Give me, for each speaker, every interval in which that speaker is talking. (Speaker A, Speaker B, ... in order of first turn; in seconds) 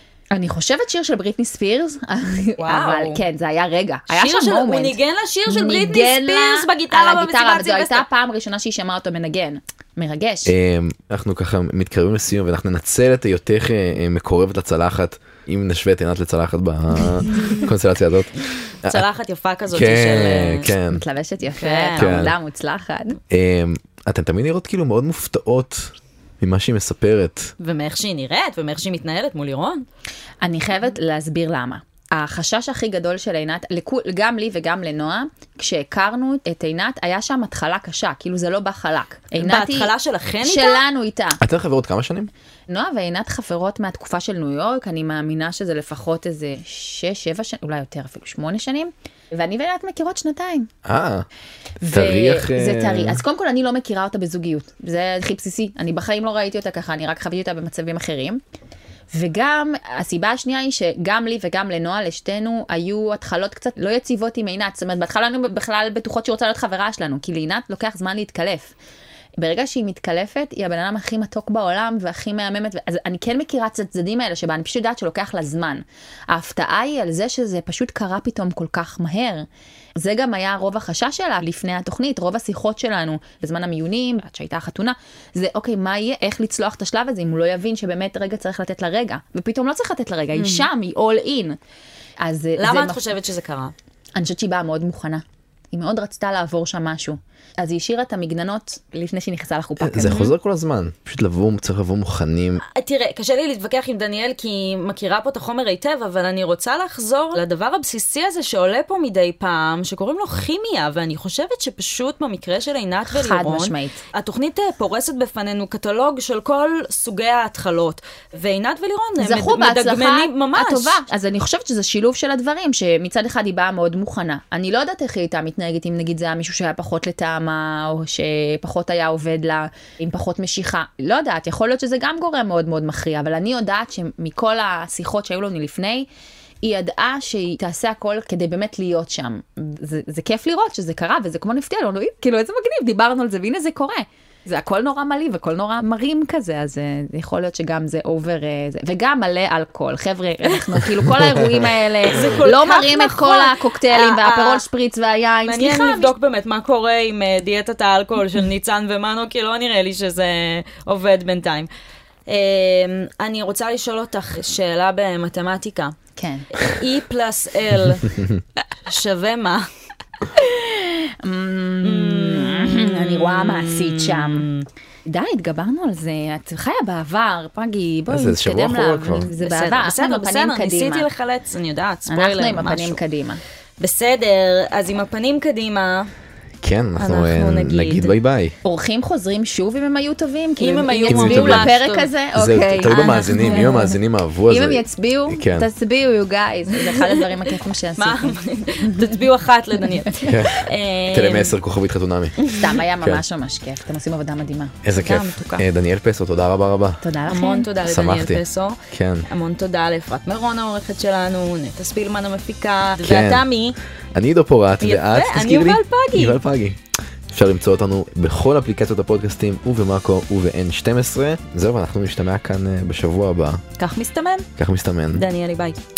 Speaker A: 0.3-10.5, 20.9-23.2, 30.4-39.9, 40.4-41.4, 42.7-50.7, 51.8-58.4, 59.1-68.7, 69.4-91.6, 92.2-93.0, 94.2-100.2, 113.1-114.0, 119.2-136.1, 136.6-156.1, 166.2-166.5, 170.4-174.5, 175.1-181.1, 182.1-183.4, 188.6-194.0, 194.5-199.1, 202.6-204.8, 207.0-207.7
Speaker B: 2.6-3.2, 4.1-8.1, 18.9-20.7, 21.6-22.1, 27.6-29.9, 39.4-40.8, 90.3-90.7, 92.6-93.7, 100.0-100.3, 102.7-121.0, 152.1-154.6, 155.5-161.7, 162.3-166.0, 166.5-168.2, 168.9-169.7, 171.8-174.7, 179.4-183.0, 183.8-186.1, 187.0-188.1, 190.6-192.1, 192.9-193.6, 196.8-197.4, 198.0-201.6, 202.4-202.8, 204.9-205.6, 207.3-213.8, 214.8-216.4, 223.8-224.5, 225.1-225.8
Speaker C: 10.5-19.1, 19.7-21.0, 22.0-22.3, 23.3-27.5, 41.4-42.3, 50.9-51.3, 51.9-53.2, 99.8-102.6, 178.1-179.3, 186.6-188.6, 191.1-191.7, 192.4-195.7, 200.2-202.5, 204.8-207.0, 207.8-209.2, 213.0-213.5, 214.1-216.8, 217.3-223.6, 224.6-225.2